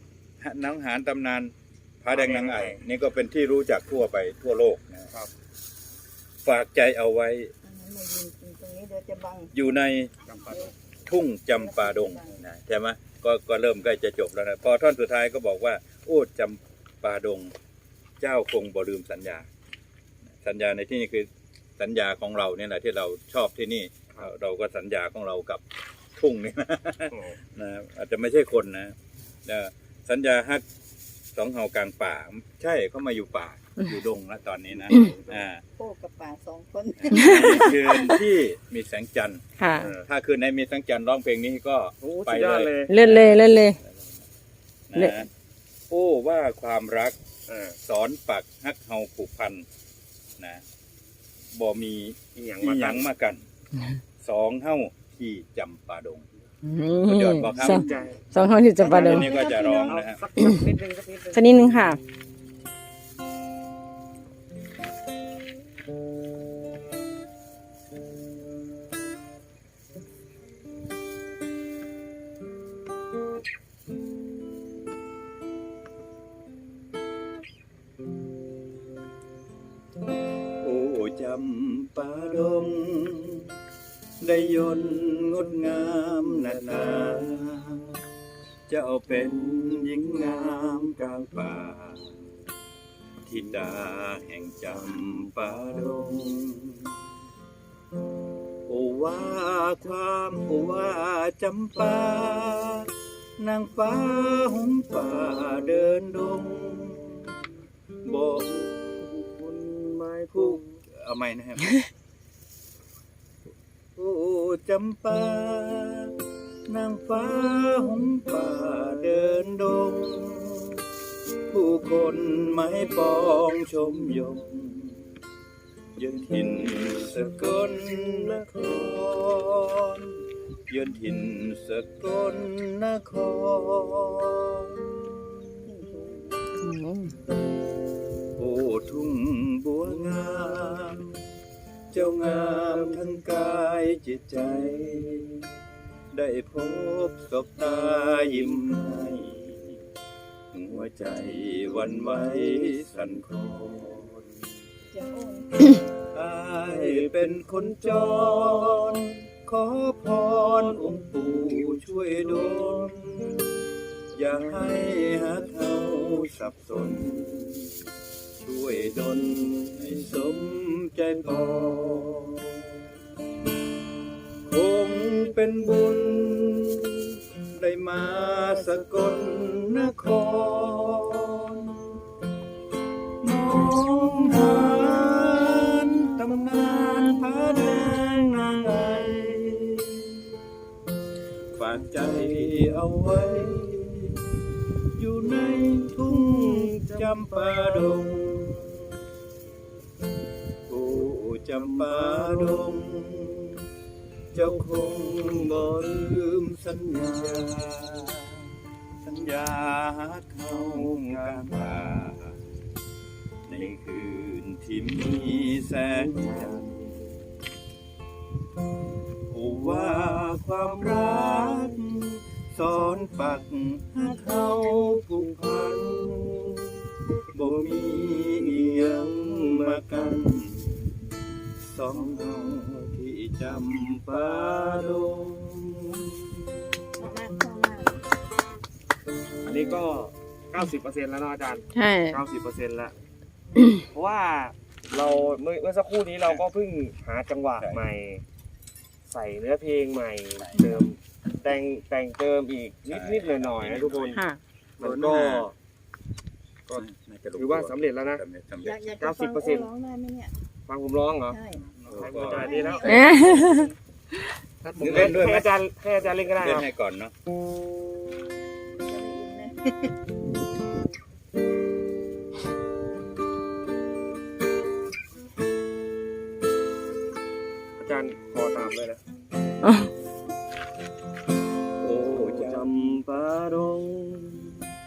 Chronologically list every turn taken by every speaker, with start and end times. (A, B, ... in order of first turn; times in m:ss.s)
0:00.4-0:01.5 A
0:02.0-0:05.1 A
0:02.1-0:02.8 B
0:06.4-0:07.5 A
0:07.6-0:09.8 C
0:09.5-0:10.1 A
0:10.2-0:10.7 B
0:10.4-0:10.7 C
0:11.0-0:17.5 A
0:11.5-0:12.4 C
0:18.2-0:19.5 A
0:20.4-0:25.6 A
0:26.2-0:28.9 A
0:29.4-0:30.6 A
0:31.3-0:35.6 A
0:34.9-0:35.4 B
0:35.8-0:37.7 C
0:37.0-0:39.4 A
0:37.1-0:38.1 D
0:39.6-0:39.9 D
0:39.8-0:40.0 B
0:40.0-0:44.0 A
0:42.0-0:42.9 B
0:42.9-0:43.8 D
0:44.9-0:45.3 A
0:44.9-0:45.2 D
0:45.9-0:47.2 A
0:47.5-0:47.8 B
0:47.8-0:49.6 A
0:51.5-0:53.4 A
0:52.3-0:53.1 B
0:54.2-0:56.2 A
0:56.6-0:59.3 D
0:57.0-0:57.9 A
0:57.6-0:58.2 B
0:58.8-1:00.2 A
0:58.8-1:00.0 C
0:58.8-0:59.3 B
0:59.9-1:01.5 B
1:01.3-1:02.0 D
1:20.6-1:23.5 A
1:24.2-1:28.0 A
1:28.7-1:32.2 A
1:33.2-1:36.9 A
1:38.7-1:47.3 A
1:48.0-1:48.7 A
1:48.9-1:50.8 B
1:50.3-1:51.8 A
1:54.0-1:56.1 A
1:56.7-2:00.8 A
2:01.5-2:05.1 A
2:06.0-2:10.1 A
2:07.9-2:08.6 B
2:10.7-2:14.7 A
2:15.6-2:16.4 C
2:16.6-2:17.1 D
2:18.4-2:21.1 A
2:21.9-2:25.4 A
2:26.1-2:29.7 A
2:30.5-2:34.2 A
2:34.9-2:35.8 C
2:36.1-2:43.4 A
2:36.6-2:38.9 B
2:44.1-2:47.7 A
2:48.4-2:52.7 A
2:54.4-3:01.9 A
3:03.2-3:10.1 A
3:11.5-3:14.2 A
3:15.0-3:18.8 A
3:15.6-3:17.7 B
3:20.7-3:23.6 A
3:21.7-3:22.6 B
3:24.3-3:28.4 A
3:29.0-3:32.4 A
3:30.5-3:31.8 B
3:33.4-3:36.7 A
3:36.0-3:36.8 B
3:39.3-3:46.5 A
3:45.3-3:46.1 B
3:47.3-3:50.8 A
3:48.8-3:49.8 B
3:51.7-3:56.0 A
3:52.0-3:52.3 B
3:54.3-3:54.8 B
3:57.0-3:58.0 C
3:59.4-4:02.9 B
4:01.7-4:02.2 D
4:03.9-4:08.2 B
4:09.0-4:14.2 B
4:10.4-4:10.8 A
4:12.9-4:14.2 A
4:14.1-4:14.4 D
4:14.8-4:15.5 B
4:14.8-4:15.5 A
4:16.7-4:18.2 B
4:16.7-4:18.8 A
4:18.6-4:20.3 C
4:19.0-4:19.7 B
4:20.7-4:21.4 B
4:21.3-4:23.7 C
4:21.7-4:22.7 A
4:21.9-4:22.9 B
4:22.8-4:23.7 D
4:24.8-4:25.5 A
4:24.8-4:26.7 B
4:26.1-4:27.1 A
4:28.8-4:29.6 C
4:37.8-4:39.0 B
4:39.6-4:39.9 D
4:41.8-4:42.7 A
4:42.0-4:44.5 B